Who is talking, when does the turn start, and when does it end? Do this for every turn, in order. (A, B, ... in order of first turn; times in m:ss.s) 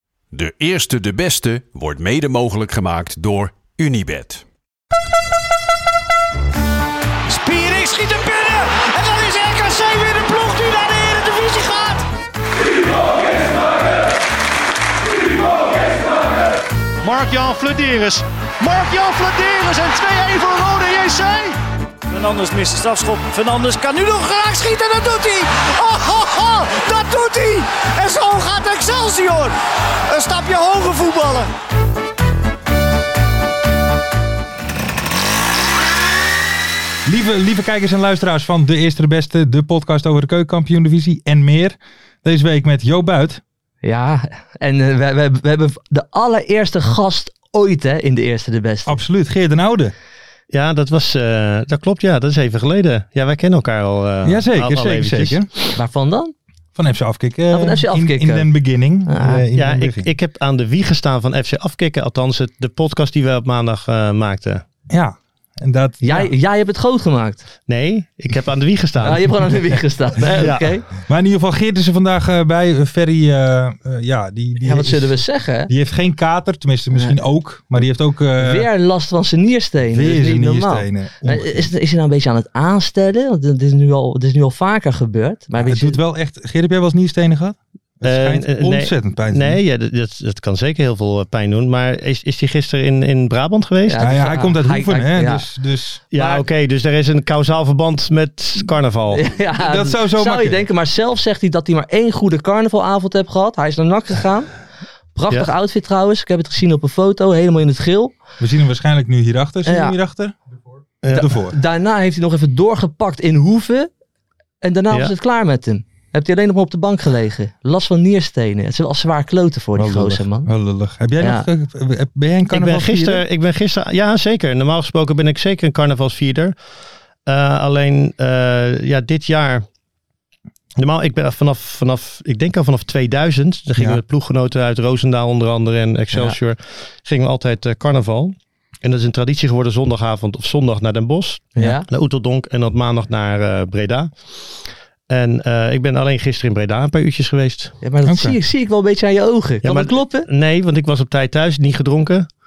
0:00.3-0:04.4 A
0:07.3-0:12.0 B
0:17.0-0:21.6 B
0:22.1-0:29.6 B
0:30.1-0:31.5 B
0:37.0-0:43.4 C
0:43.8-0:49.0 D
0:48.8-0:49.9 C
0:50.5-0:55.4 E
0:54.2-0:55.7 C
0:55.7-0:56.3 D
0:56.7-1:00.1 C
0:57.5-0:58.5 D
0:59.0-0:59.4 D
0:59.5-1:04.6 E
1:04.9-1:06.3 C
1:06.0-1:07.4 D
1:07.7-1:09.7 E
1:09.0-1:10.9 D
1:10.3-1:10.7 E
1:11.0-1:18.7 C
1:14.6-1:15.7 D
1:18.4-1:26.0 D
1:19.9-1:21.7 C
1:25.6-1:29.6 C
1:28.0-1:34.0 E
1:33.9-1:35.5 D
1:34.0-1:36.0 C
1:36.1-1:39.2 E
1:36.1-1:36.4 D
1:39.1-1:44.6 D
1:39.6-1:40.6 C
1:45.1-1:48.1 D
1:48.4-1:50.3 C
1:49.6-1:50.0 D
1:51.0-1:51.3 E
1:51.1-1:51.6 C
1:51.1-1:53.9 D
1:54.6-2:00.5 D
1:59.7-2:03.2 C
2:01.2-2:01.4 D
2:02.5-2:06.6 E
2:07.2-2:09.6 E
2:10.8-2:24.6 E
2:13.8-2:14.0 C
2:16.1-2:16.4 D
2:21.6-2:21.9 D
2:25.1-2:27.7 E
2:27.8-2:30.3 D
2:28.0-2:28.4 C
2:29.6-2:32.3 E